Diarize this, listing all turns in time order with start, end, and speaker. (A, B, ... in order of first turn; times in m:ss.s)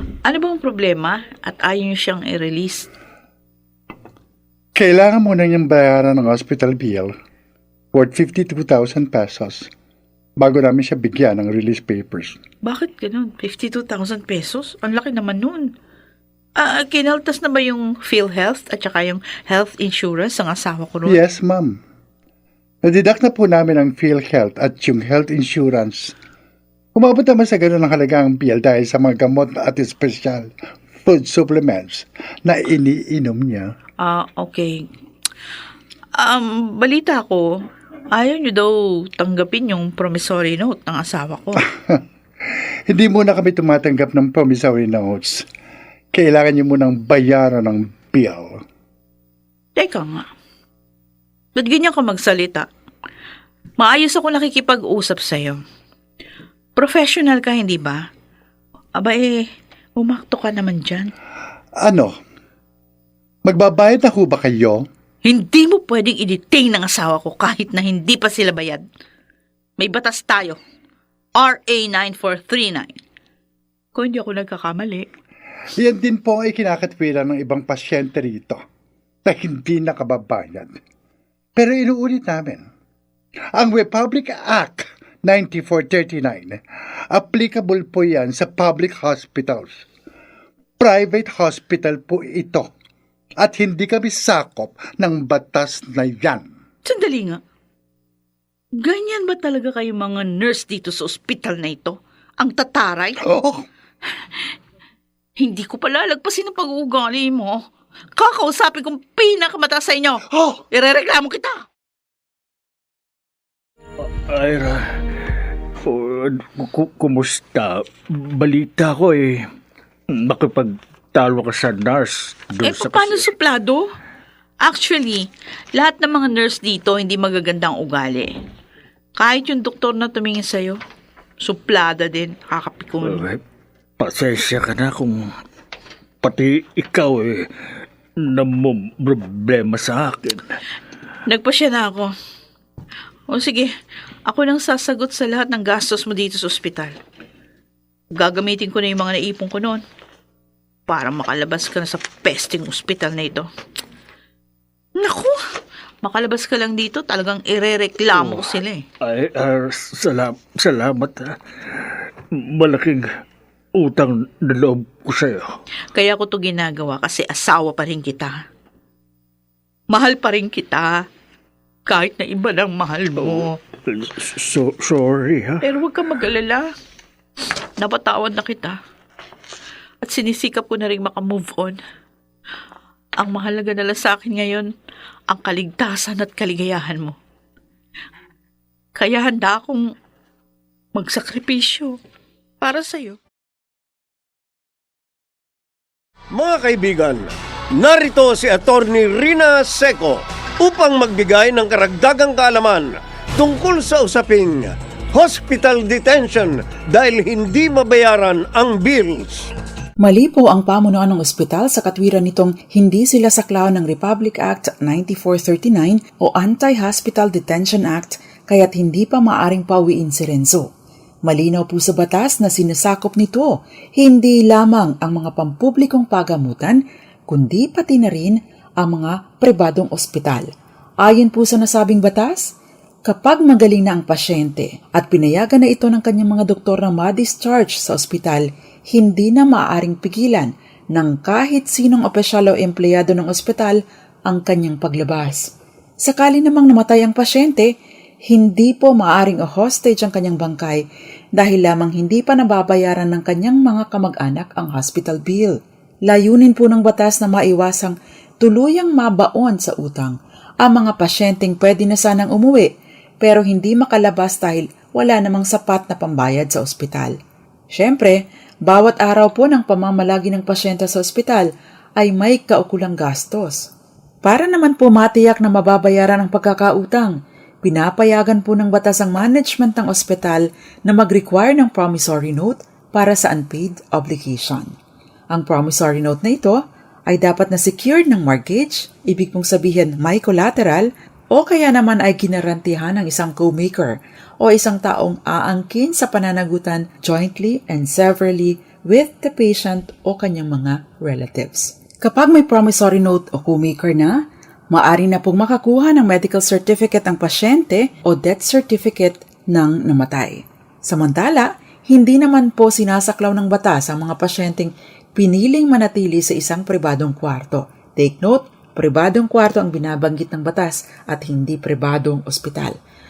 0:00.2-0:02.9 A
0:04.8-0:07.1 B
0:07.9-0:09.7 B
0:10.4-0:12.4 B
0:12.6-0:15.7 A
0:16.6-0:21.2 A
0:21.0-0:21.8 B
0:22.8-0:26.1 B
0:26.9-0:30.5 B
0:31.0-0:33.7 B
0:34.0-0:34.9 A
0:36.2-0:37.6 A
0:38.1-0:41.6 A
0:41.7-0:42.0 B
0:42.9-0:45.5 B
0:46.1-0:48.6 B
0:49.8-0:50.3 A
0:51.5-0:52.7 A
0:53.8-0:55.6 A
0:56.8-0:58.0 A
0:59.0-1:01.1 A
1:01.8-1:02.1 B
1:03.4-1:04.9 B
1:05.2-1:08.9 A
1:09.8-1:10.6 A
1:11.4-1:13.0 A
1:13.9-1:15.1 A
1:15.8-1:18.6 B
1:19.2-1:20.8 B
1:21.6-1:22.6 B
1:23.5-1:26.6 B
1:27.1-1:29.8 B
1:30.8-1:32.7 B
1:33.4-1:36.5 B
1:36.8-1:37.4 A
1:38.8-1:43.2 A
1:43.2-1:43.6 B
1:45.4-1:47.6 A
1:48.2-1:51.6 A
1:54.2-1:55.0 C
1:55.8-1:59.5 C
2:00.1-2:03.3 C
2:02.6-2:03.9 A
2:04.6-2:05.2 A
2:05.8-2:08.3 A
2:09.2-2:10.8 A
2:11.4-2:13.2 A
2:13.0-2:13.4 C
2:14.0-2:15.3 C
2:16.2-2:17.5 C
2:18.2-2:20.4 C
2:21.3-2:22.1 A
2:23.3-2:23.7 A
2:24.3-2:27.0 A
2:28.2-2:29.8 A
2:30.9-2:33.5 A
2:35.0-2:35.4 A
2:36.0-2:38.8 A
2:38.1-2:38.5 C
2:39.0-2:43.1 C
2:43.8-2:45.5 C
2:45.9-2:48.4 A
2:49.9-2:51.0 A
2:51.9-2:53.6 A
2:53.2-2:55.6 C
2:55.6-2:56.7 A
2:57.8-2:58.8 A
3:00.0-3:01.8 A
3:03.2-3:04.7 A
3:05.3-3:07.2 A
3:09.0-3:09.8 A
3:11.0-3:12.0 A
3:12.6-3:13.2 A
3:16.3-3:17.2 D
3:17.8-3:29.5 D
3:30.0-3:40.7 E
3:41.2-3:50.5 E
3:51.0-3:52.5 E
3:53.0-4:05.5 E
4:06.0-4:07.7 E
4:08.3-4:10.8 E
4:11.4-4:15.6 E
4:16.1-4:27.2 E
4:27.7-4:33.7 E
4:34.2-4:44.8 E
4:45.3-5:22.8 E